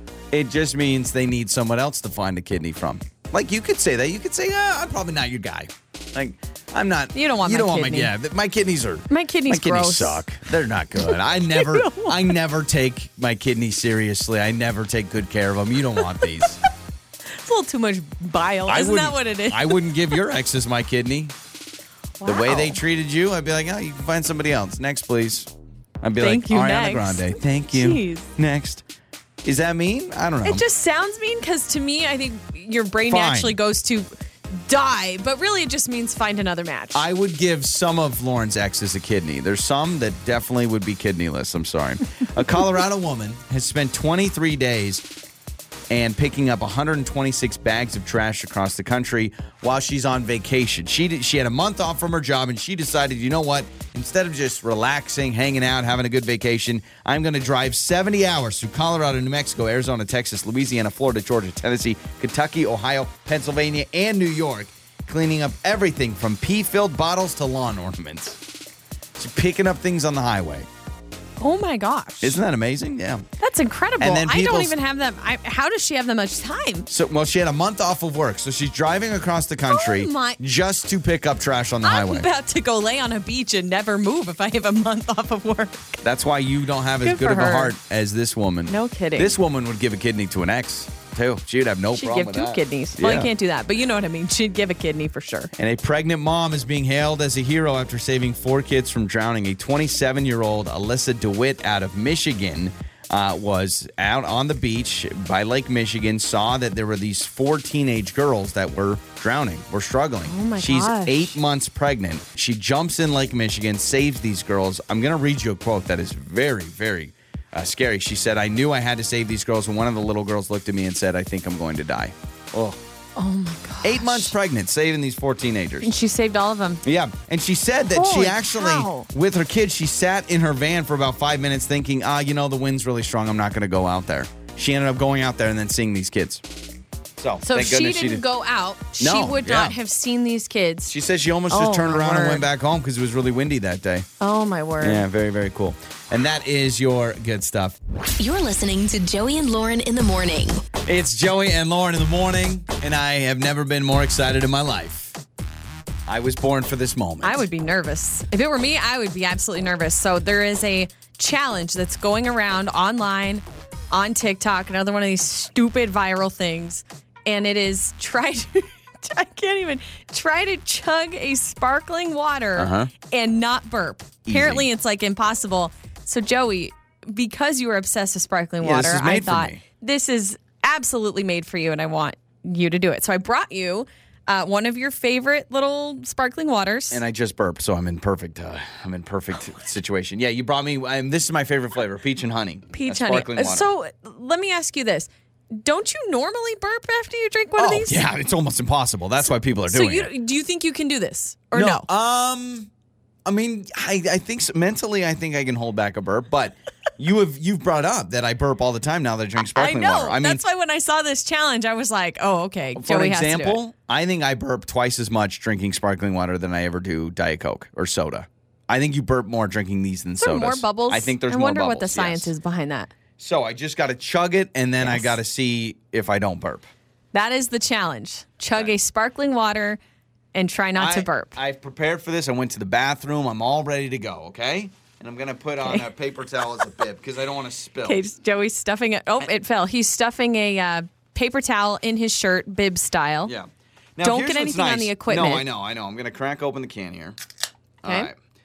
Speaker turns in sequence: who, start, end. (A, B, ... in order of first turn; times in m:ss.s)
0:00.3-0:16.6 A
0:07.1-0:08.1 B
0:09.1-0:10.2 B
0:11.0-0:12.4 B
0:17.4-0:20.1 B
0:18.7-0:21.3 A
0:22.2-0:22.8 B
0:22.2-0:25.5 A
0:26.0-0:28.8 A
0:26.2-0:28.3 B
0:29.4-0:30.6 A
0:30.4-0:37.0 B
0:33.1-0:33.6 A
0:36.9-0:45.0 A
0:45.9-1:08.4 A
1:09.2-1:10.7 A
1:11.4-1:12.4 B
1:12.2-1:13.2 A
1:13.4-1:16.9 B
1:14.0-1:14.7 A
1:16.9-1:22.3 A
1:19.7-1:20.4 B
1:21.8-1:26.0 B
1:26.0-1:33.3 A
1:27.0-1:27.7 B
1:28.7-1:29.3 B
1:31.9-1:35.5 B
1:35.6-2:02.8 A
1:50.3-1:51.4 B
2:03.2-2:04.3 B
2:03.8-2:06.0 A
2:05.8-2:06.8 B
2:06.8-2:16.4 A
2:07.9-2:09.1 B
2:17.2-2:18.2 A
2:17.4-2:20.9 B
2:19.0-2:19.8 A
2:20.9-2:24.1 A
2:21.5-2:22.4 B
2:24.2-2:25.0 B
2:24.8-2:27.8 A
2:28.2-2:30.6 C
2:30.8-2:35.2 A
2:36.1-2:37.4 A
2:37.2-3:07.0 B
2:52.6-2:52.9 A
2:54.3-2:54.6 A
2:58.6-2:59.6 A
3:06.9-3:13.7 A
3:12.7-3:18.1 B
3:17.6-3:20.1 A
3:19.7-3:21.9 B
3:21.5-3:22.7 A
3:23.3-3:30.4 A
3:29.4-3:33.6 B
3:32.8-3:42.3 A
3:40.2-3:42.9 B
3:43.2-3:46.7 A
3:44.8-3:45.1 B
3:47.1-3:49.8 B
3:50.3-3:51.4 B
3:50.8-3:58.0 A
3:57.8-4:03.3 B
4:03.3-4:07.2 A
4:04.0-4:05.4 B
4:07.8-4:08.1 A